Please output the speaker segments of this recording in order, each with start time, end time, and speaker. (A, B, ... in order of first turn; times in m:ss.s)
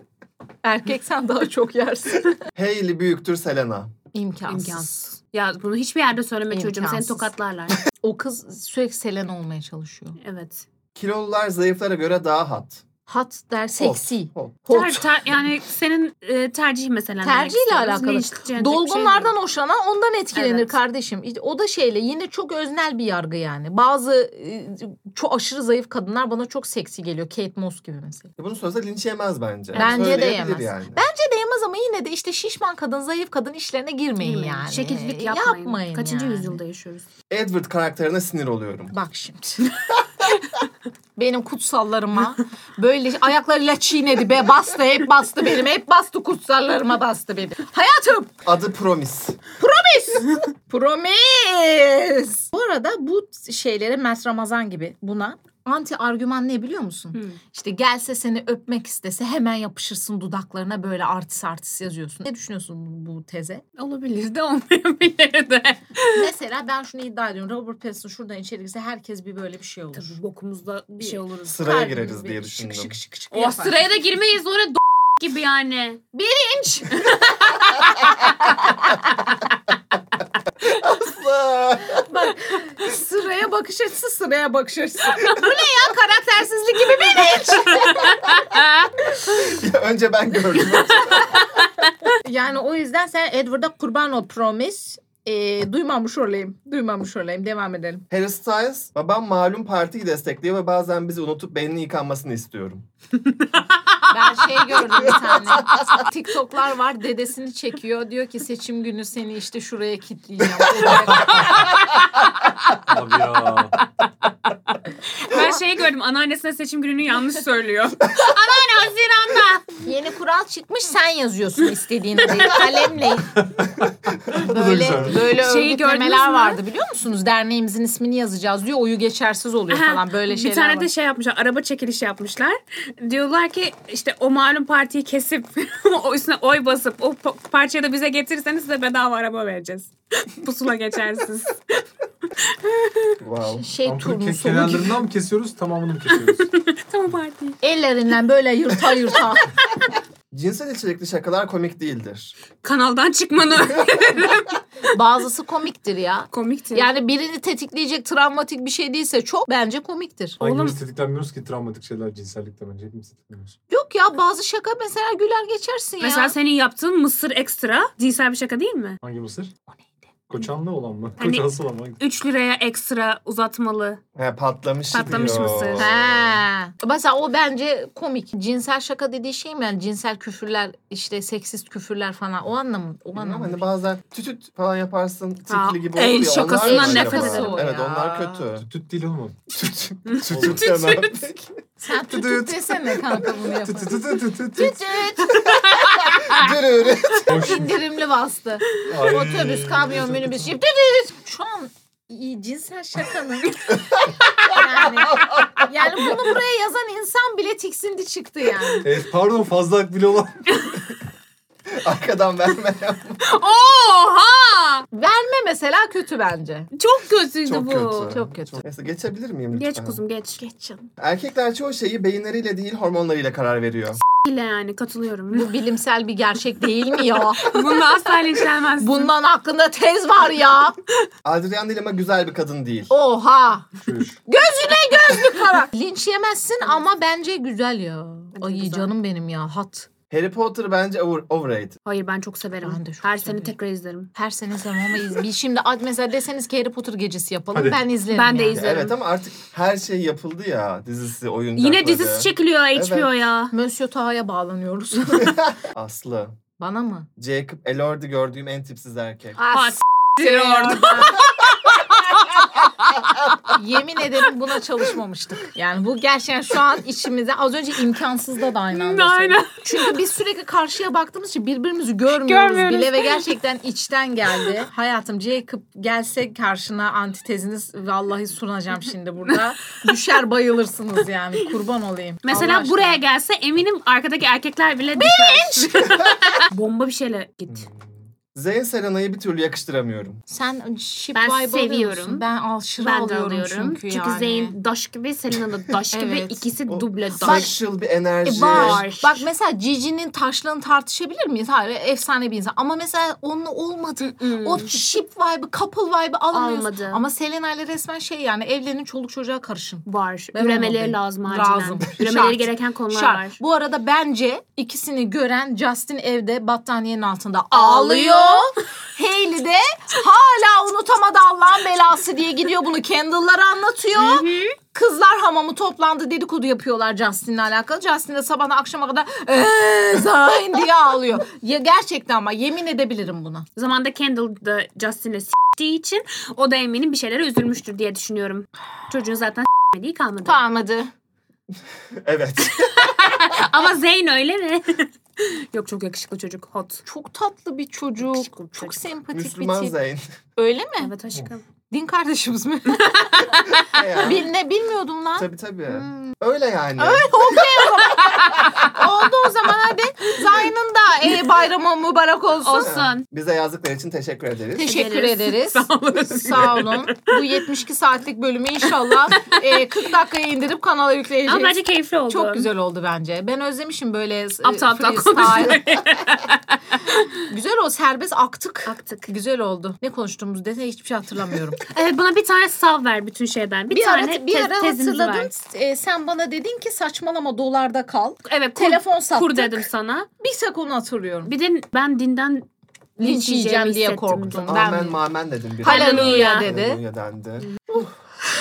0:00.6-0:02.4 A
0:02.5-0:03.9 B
0:04.1-0:05.1 A
0:04.5-0:07.8 C
0:06.5-0:07.3 A
0:07.9-0:10.2 A
0:10.2-0:10.6 C
0:11.0-0:12.8 B
0:13.1-0:15.0 A
0:13.8-0:14.9 B
0:14.7-0:19.3 C
0:17.2-0:28.3 A
0:20.3-0:20.7 C
0:28.4-0:31.0 B
0:29.7-0:30.4 C
0:29.7-0:36.6 A
0:34.2-0:37.0 C
0:37.3-0:38.9 B
0:38.9-0:39.7 A
0:41.2-0:48.4 A
0:48.4-0:49.4 B
0:49.6-1:03.6 A
1:03.8-1:06.3 C
1:06.1-1:10.2 A
1:09.9-1:11.5 C
1:11.0-1:14.0 A
1:11.5-1:13.0 B
1:13.3-1:16.0 C
1:16.1-1:17.3 A
1:17.0-1:18.2 C
1:18.0-1:19.0 A
1:20.6-1:22.1 B
1:21.9-1:28.3 A
1:27.2-1:28.9 C
1:29.4-1:31.4 B
1:32.2-1:38.0 A
1:38.1-1:42.8 B
1:44.1-1:51.7 A
1:50.8-1:51.6 D
1:51.2-1:52.1 C
1:52.8-1:53.8 D
1:55.1-1:59.7 C
1:59.8-2:03.3 A
2:02.3-2:02.6 C
2:03.1-2:05.3 D
2:04.4-2:10.9 A
2:05.1-2:06.6 C
2:09.7-2:21.8 C
2:22.4-2:23.1 C
2:23.2-2:23.7 B
2:23.6-2:25.0 A
2:23.8-2:26.5 D
2:26.1-2:27.6 C
2:27.6-2:29.6 A
2:30.3-2:32.3 B
2:32.6-2:35.0 C
2:34.9-2:40.4 A
2:36.3-2:36.9 C
2:40.4-2:43.5 D
2:40.4-2:40.8 C
2:43.7-2:46.3 A
2:46.0-2:49.0 C
2:49.0-2:49.5 D
2:50.3-2:52.0 D
2:51.2-2:54.0 C
2:54.2-2:56.4 B
2:54.9-2:55.8 C
2:55.0-2:55.7 D
2:55.8-3:03.6 A
3:03.2-3:08.7 B
3:05.5-3:07.6 C
3:06.0-3:08.4 A
3:08.6-3:09.5 D
3:09.5-3:11.5 B
3:10.1-3:11.2 C
3:10.3-3:10.6 D
3:11.8-3:15.5 A
3:12.1-3:14.8 D
3:15.2-3:16.5 C
3:16.2-3:17.4 B
3:17.3-3:17.8 D
3:17.3-3:28.9 A
3:18.8-3:20.5 D
3:24.2-3:25.1 C
3:28.8-3:30.5 D
3:31.7-3:33.2 B
3:33.2-3:34.9 C
3:34.9-3:36.7 A
3:36.7-3:38.1 C
3:37.4-3:40.0 B
3:38.1-3:38.6 A
3:39.5-3:40.4 C
3:40.4-3:40.9 A
3:41.0-3:44.0 B
3:44.1-3:45.6 C
3:45.3-3:47.6 A
3:47.2-3:49.1 C
3:48.8-3:50.8 A
3:51.2-3:52.9 B
3:52.9-3:53.7 A
3:53.8-3:54.2 D
3:54.3-3:59.9 A
3:58.4-3:58.9 C
4:00.1-4:01.7 B
4:01.8-4:04.1 C
4:02.6-4:03.5 A
4:04.1-4:08.6 A
4:07.5-4:07.8 D
4:08.1-4:08.9 C
4:08.5-4:13.1 B
4:11.6-4:13.5 C
4:13.5-4:15.4 A
4:15.6-4:16.4 B
4:16.6-4:17.1 A
4:17.2-4:19.4 B
4:19.4-4:23.4 C
4:19.4-4:21.2 A
4:23.5-4:43.0 A
4:28.7-4:30.0 C
4:32.1-4:33.2 C
4:42.2-4:47.7 C
4:45.0-4:46.0 A
4:47.5-4:50.2 B
4:50.3-4:54.5 A
4:51.1-4:52.2 C
4:52.8-4:57.5 C
4:55.9-4:56.5 A
4:56.7-4:58.8 B
4:57.2-4:57.5 A
4:58.2-5:33.4 A
4:58.4-4:59.3 C
5:04.0-5:04.7 C
5:06.3-5:07.0 C
5:09.8-5:13.4 C
5:17.5-5:18.5 C
5:23.9-5:24.6 C
5:33.6-5:40.4 C
5:40.2-5:40.9 A
5:41.9-5:42.9 B
5:42.6-5:46.8 C
5:46.8-5:49.7 A
5:48.0-5:48.7 C
5:49.1-5:50.2 B
5:50.4-5:50.9 A
5:50.8-5:51.4 C
5:51.7-5:53.3 A
5:52.8-5:53.6 C
5:53.7-5:54.3 B
5:53.9-5:56.1 A
5:55.2-5:57.4 B
5:56.8-6:02.7 A
5:58.0-5:58.7 C
6:02.4-6:03.0 C
6:02.6-6:04.7 B
6:04.5-6:15.6 A
6:04.6-6:07.4 C
6:09.1-6:09.6 C
6:11.2-6:12.5 C
6:14.4-6:17.1 C
6:17.2-6:21.6 A
6:18.7-6:19.1 C
6:21.6-6:25.3 C
6:23.7-6:29.7 A
6:28.2-6:30.1 C
6:30.2-6:31.3 A
6:31.2-6:32.5 C
6:33.0-6:34.6 C
6:33.0-6:35.0 A
6:34.5-6:37.9 B
6:35.6-6:36.8 A
6:35.6-6:36.5 C